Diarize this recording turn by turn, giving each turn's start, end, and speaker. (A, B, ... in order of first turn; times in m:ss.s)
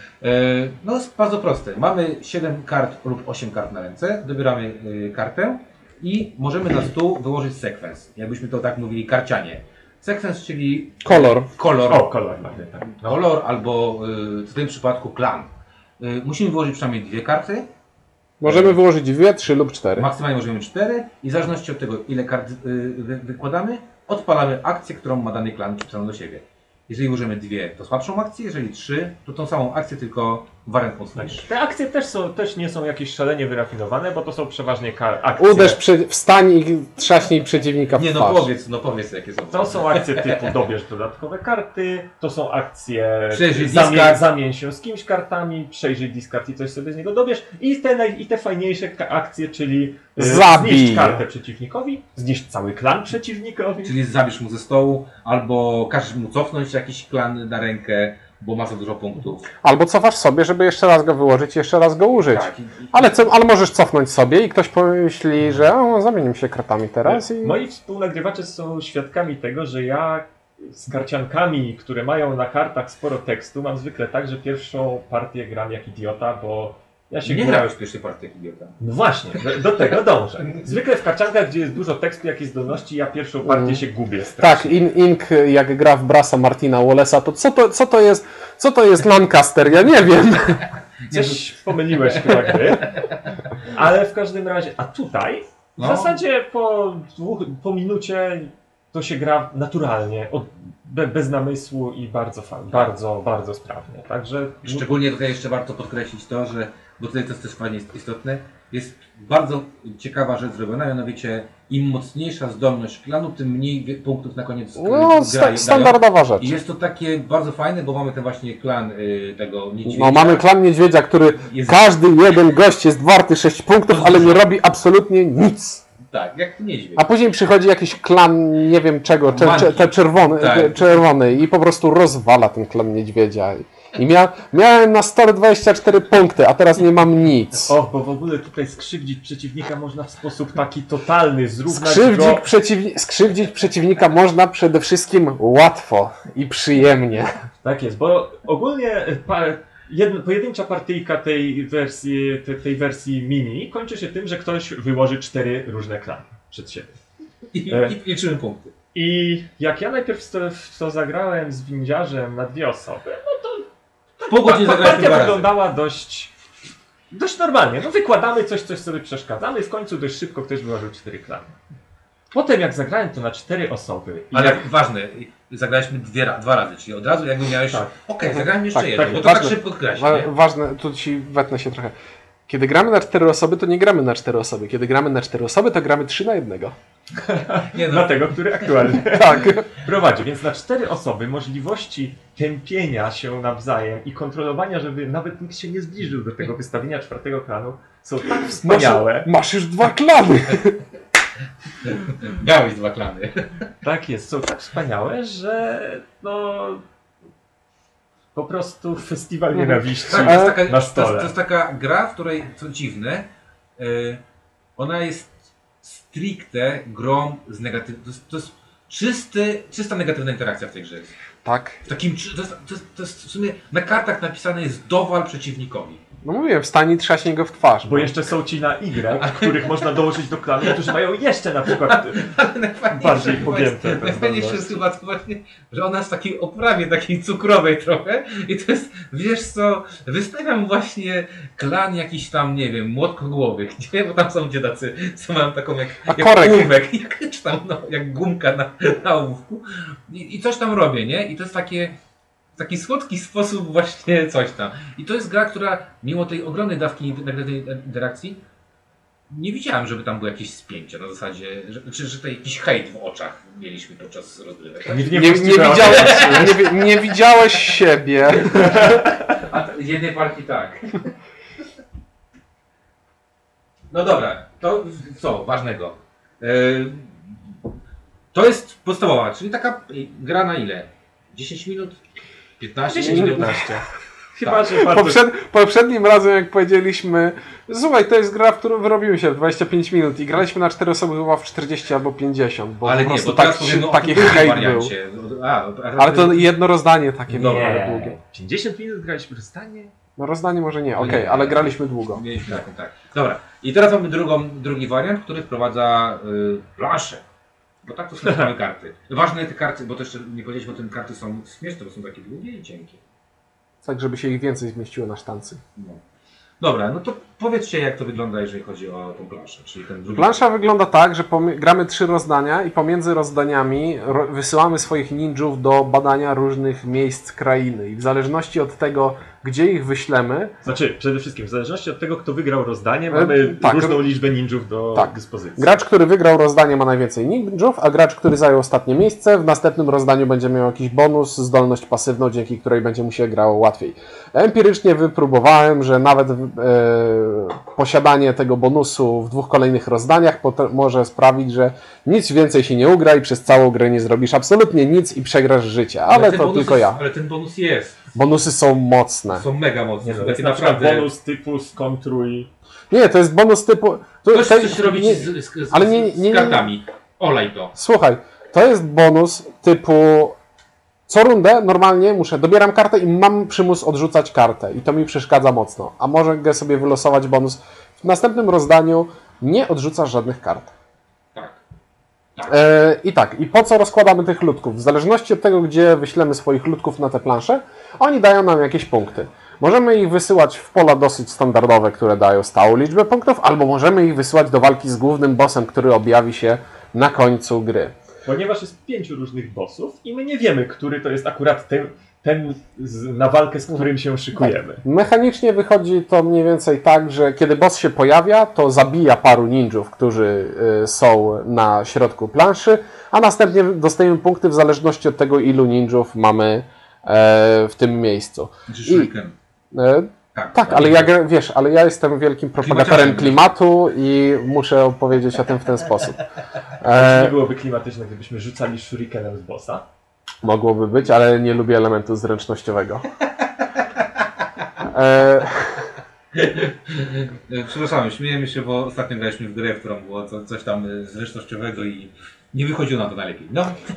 0:00.2-0:12.1 A
0:11.0-0:11.5 B
0:11.9-0:13.2 C
0:13.0-0:17.7 A
0:18.4-0:20.1 B
0:18.4-0:18.8 A
0:20.0-0:31.5 A
0:31.2-0:35.8 C
0:35.4-0:38.5 B
0:38.0-0:40.4 A
0:39.5-0:53.9 C
0:43.3-0:44.2 A
0:50.2-0:51.2 B
0:53.8-0:59.5 A
0:59.6-1:07.6 B
1:02.2-1:03.2 A
1:07.0-1:17.6 C
1:17.2-1:18.8 A
1:18.8-1:24.8 C
1:23.4-1:23.8 B
1:24.4-1:30.6 B
1:31.1-1:31.4 A
1:31.1-1:33.1 C
1:32.1-1:33.2 A
1:33.6-1:44.9 C
1:35.8-1:36.2 A
1:44.6-2:00.5 A
1:54.8-1:56.6 B
1:59.8-2:05.8 B
2:01.4-2:02.0 A
2:03.9-2:04.4 A
2:06.1-2:07.0 A
2:07.0-2:17.7 B
2:09.2-2:11.0 A
2:17.7-2:22.4 C
2:21.7-2:27.4 B
2:27.6-2:36.9 C
2:37.5-2:38.7 A
2:37.7-2:38.0 C
2:38.9-2:43.7 C
2:44.2-2:46.3 C
2:44.2-2:45.5 A
2:47.1-2:51.6 C
2:52.3-2:54.7 C
2:54.3-3:00.3 A
2:57.7-2:57.9 C
2:58.3-3:01.9 B
3:02.5-3:06.7 B
3:07.2-3:19.3 C
3:07.6-3:08.2 A
3:09.0-3:09.7 B
3:18.6-3:20.8 B
3:21.8-3:23.7 A
3:23.8-3:26.8 C
3:28.3-3:31.3 C
3:29.5-3:30.6 B
3:30.1-3:34.2 A
3:34.8-3:41.1 A
3:41.4-3:41.8 B
3:41.8-3:46.0 A
3:46.2-3:48.3 B
3:47.8-3:52.4 C
3:49.2-3:50.0 A
3:50.6-3:50.9 A
3:51.8-4:12.0 A
3:52.9-3:54.8 C
4:06.1-4:06.7 B
4:12.6-4:18.4 A
4:19.3-4:26.8 A
4:24.9-4:26.8 C
4:25.1-4:29.0 B
4:28.4-4:31.1 A
4:28.5-4:29.1 C
4:33.9-4:37.3 A
4:38.3-4:42.0 A
4:42.6-4:43.6 A
4:42.9-4:45.2 C
4:43.0-4:43.4 B
4:44.4-4:44.7 A
4:44.7-4:54.9 B
4:52.8-4:56.5 A
4:56.0-4:58.2 B
4:57.3-4:59.9 C
5:00.2-5:02.2 B
5:01.0-5:07.2 A
5:07.8-5:13.0 A
5:13.8-5:15.6 B
5:15.8-5:16.0 A
5:16.6-5:20.4 A
5:20.1-5:30.5 B
5:30.6-5:35.8 C
5:33.1-5:34.0 B
5:34.9-5:57.0 B
5:56.1-5:58.0 A
5:58.1-5:59.4 B
5:59.3-6:01.1 A
6:00.0-6:02.5 C
6:02.9-6:06.6 B
6:04.3-6:07.7 A
6:07.7-6:10.4 B
6:11.1-6:20.7 B
6:21.3-6:21.6 A
6:22.5-6:37.9 B
6:38.2-6:44.8 C
6:44.4-6:59.1 B
6:58.7-6:59.3 A
6:59.7-7:06.2 B
7:00.3-7:01.1 A
7:02.6-7:03.4 A
7:06.8-7:07.4 B
7:06.8-7:09.8 C
7:10.4-7:13.0 B
7:14.8-7:15.9 B
7:16.3-7:23.8 A